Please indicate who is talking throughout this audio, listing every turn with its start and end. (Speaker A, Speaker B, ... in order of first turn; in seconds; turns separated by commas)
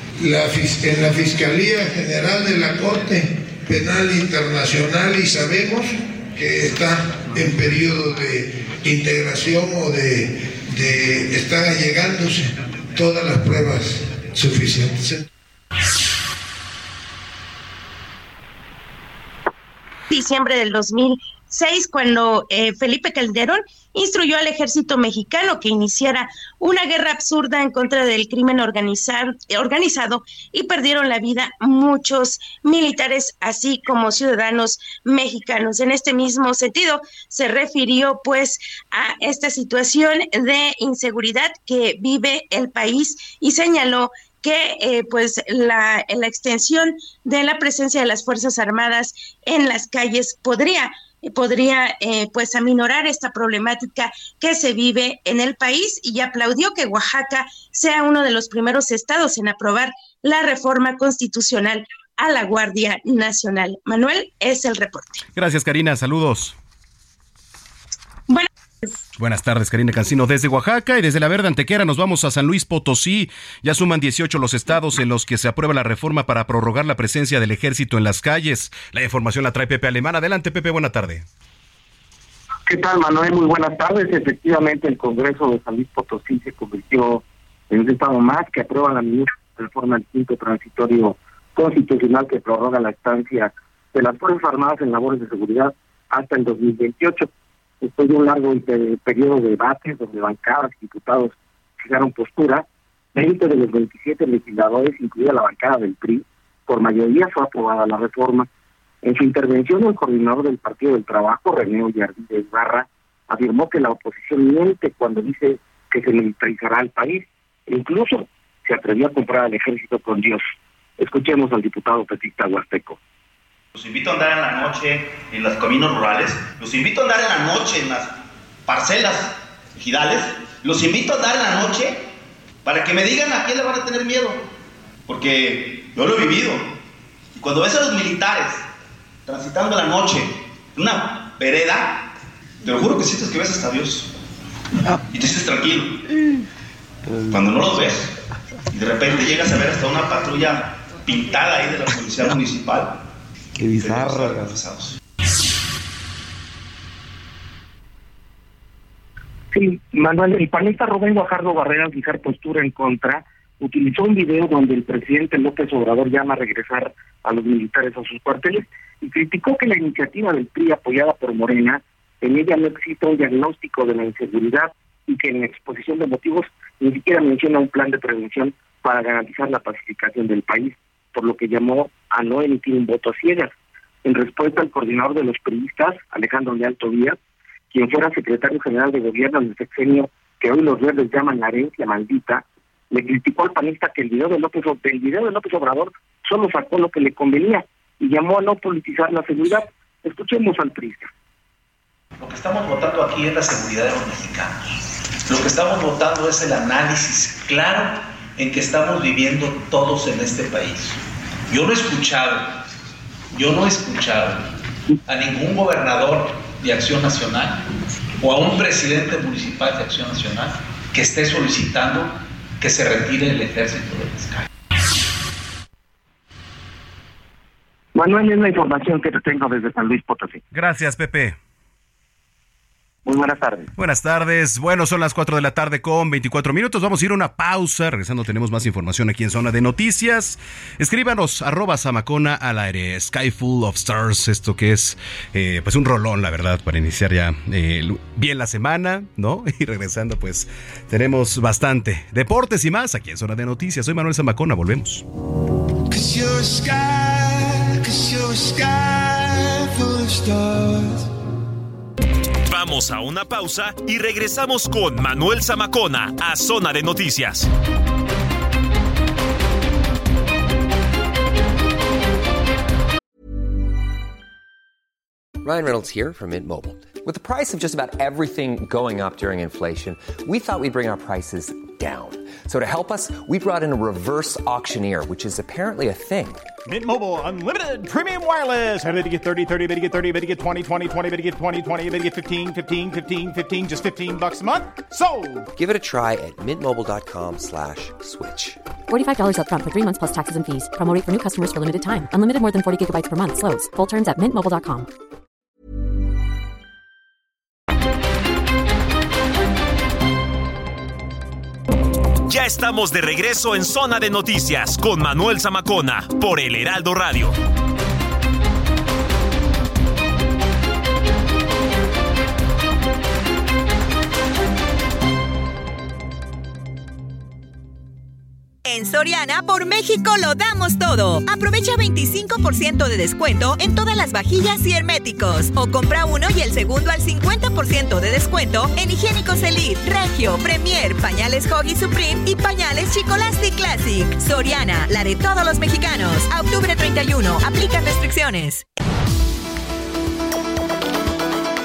Speaker A: 0.2-15.2, Speaker B: 20.1-65.2, Speaker C: 65.4-66.6, Speaker C: 69.2-81.2, Speaker D: 82.7-97.3, Speaker D: 97.8-108.5, Speaker D: 109.0-120.4, Speaker D: 121.0-123.0, Speaker E: 123.8-128.1, Speaker E: 128.7-132.0, Speaker E: 132.7-134.4, Speaker E: 135.1-136.7, Speaker E: 137.3-138.7, Speaker E: 139.3-142.1, Speaker E: 142.6-144.1, Speaker E: 145.1-146.0, Speaker E: 147.3-148.1, Speaker E: 148.7-153.0, Speaker E: 153.6-154.9, Speaker D: 159.5-183.5, Speaker D: 184.1-187.2, Speaker D: 187.7-201.1, Speaker F: 202.2-204.7, Speaker F: 205.3-212.6, Speaker F: 213.3-214.5, Speaker F: 215.1-217.6, Speaker F: 218.2-224.5, Speaker D: 227.9-230.4, Speaker C: 230.5-231.4, Speaker D: 233.1-233.7, Speaker C: 233.8-255.1, Speaker A: 255.9-260.9, Speaker G: 262.5-267.5, Speaker H: 275.4-286.5, Speaker I: 286.7-295.5, Speaker H: 295.5-298.6, Speaker J: 298.9-304.9, Speaker G: 312.3-317.4, Speaker K: 328.6-348.6